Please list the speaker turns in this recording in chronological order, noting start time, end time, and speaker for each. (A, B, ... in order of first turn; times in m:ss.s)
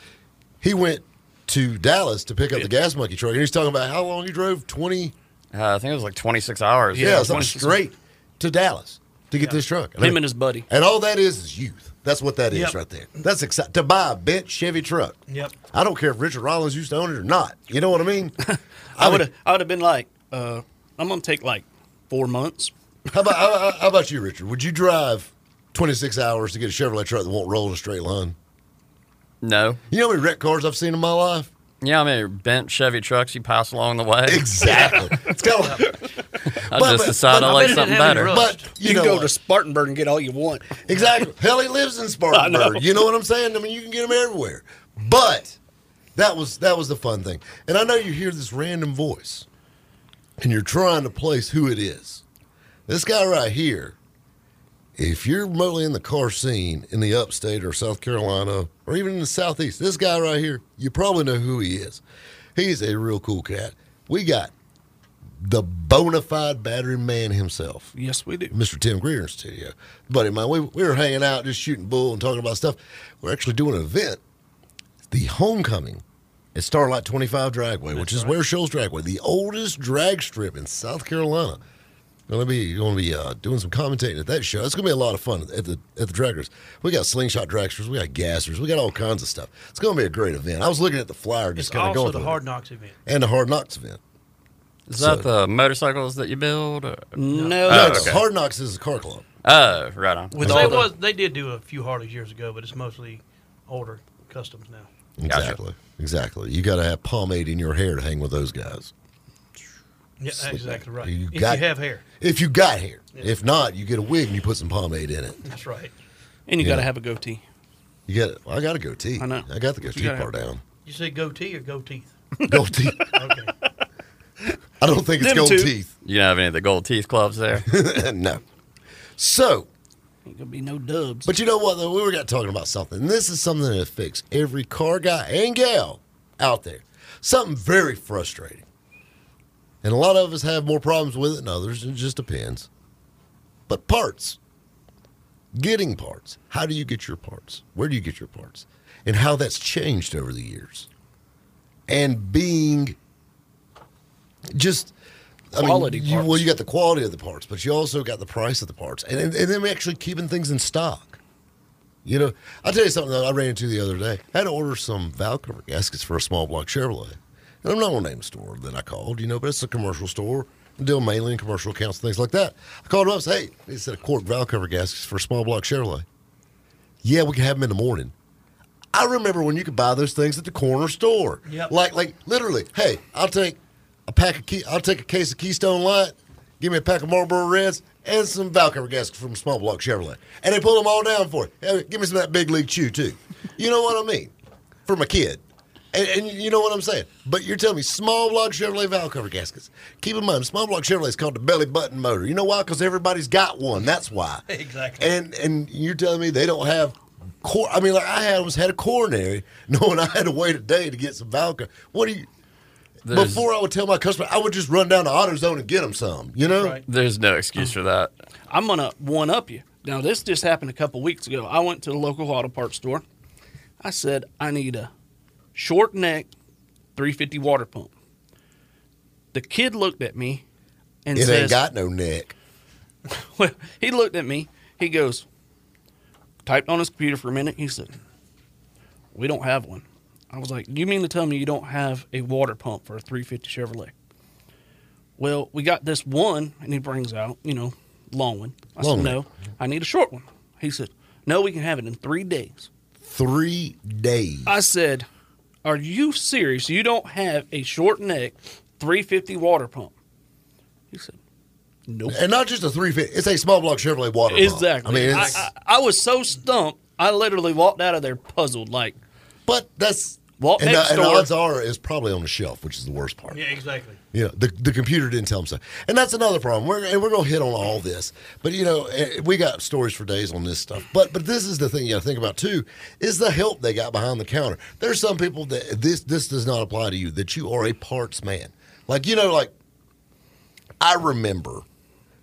0:00.6-0:05.1 A
0:05.5-0:07.4 B
0:06.9-0:07.8 C
0:07.0-0:15.2 A
0:10.0-0:10.7 C
0:12.5-0:12.8 D
0:15.3-0:15.5 D
0:15.7-0:18.4 A
0:18.4-0:22.7 C
0:18.9-0:19.3 A
0:23.1-0:28.4 A
0:29.4-0:29.8 B
0:29.9-0:31.5 A
0:31.8-0:34.9 B
0:34.2-0:35.9 A
0:36.5-0:38.3 B
0:36.7-0:39.3 A
0:37.3-0:38.7 D
0:37.4-0:38.1 C
0:38.7-0:40.8 C
0:40.8-0:45.6 A
0:42.3-0:42.9 C
0:46.1-0:49.5 A
0:50.4-0:52.2 A
0:52.9-0:54.0 A
0:55.0-1:02.0 A
1:02.5-1:04.5 A
1:05.4-1:07.9 A
1:07.9-1:08.5 C
1:08.5-1:14.2 A
1:15.1-1:16.0 A
1:16.5-1:21.6 A
1:17.9-1:18.3 D
1:22.3-1:32.4 A
1:31.6-1:33.0 D
1:33.0-1:34.0 A
1:34.9-1:38.2 B
1:35.0-1:35.3 A
1:37.2-1:38.1 C
1:37.3-1:37.8 D
1:37.7-1:39.2 A
1:39.4-1:40.7 B
1:40.3-1:40.9 C
1:40.4-1:44.9 D
1:40.4-1:40.8 A
1:45.2-1:48.9 A
1:45.3-1:45.6 B
1:50.2-1:52.0 D
1:50.3-1:51.6 A
1:52.2-1:55.4 A
1:55.4-1:55.9 D
1:56.5-1:57.4 C
1:56.6-1:56.9 A
1:58.1-2:00.6 A
1:59.2-2:00.3 C
2:00.8-2:02.2 D
2:02.4-2:03.1 A
2:03.1-2:03.5 D
2:04.8-2:05.9 A
2:05.2-2:05.7 C
2:06.0-2:07.6 B
2:07.7-2:08.4 A
2:09.2-2:09.7 A
2:10.2-2:11.3 C
2:11.2-2:18.6 A
2:19.8-2:22.7 A
2:23.7-2:24.4 A
2:25.5-2:30.9 A
2:31.9-2:33.0 A
2:34.5-2:34.9 A
2:35.5-2:41.2 A
2:35.6-2:36.4 C
2:42.0-2:56.0 A
2:57.0-2:58.1 A
2:58.9-3:14.3 A
3:01.4-3:01.7 D
3:14.8-3:15.4 A
3:15.9-3:24.4 A
3:24.5-3:25.1 D
3:25.0-3:32.3 A
3:33.0-3:36.8 A
3:33.1-3:33.4 B
3:36.4-3:36.8 D
3:36.8-3:38.1 B
3:38.5-3:43.0 C
3:43.8-3:44.9 C
3:45.5-3:46.3 C
3:46.9-3:47.9 C
3:49.3-3:50.4 C
3:51.0-3:51.6 C
3:51.1-3:52.3 A
3:53.1-3:55.2 C
3:56.4-3:57.9 C
3:59.1-4:03.9 C
4:05.2-4:12.7 C
4:08.8-4:09.2 A
4:13.0-4:14.5 A
4:14.4-4:15.1 C
4:15.6-4:19.9 C
4:20.9-4:21.2 C
4:21.9-4:22.2 C
4:22.1-4:25.5 A
4:24.3-4:29.0 C
4:25.0-4:25.5 D
4:29.5-4:33.4 A
4:30.4-4:31.3 C
4:33.3-4:34.0 D
4:34.1-4:49.5 A
4:50.8-4:51.6 A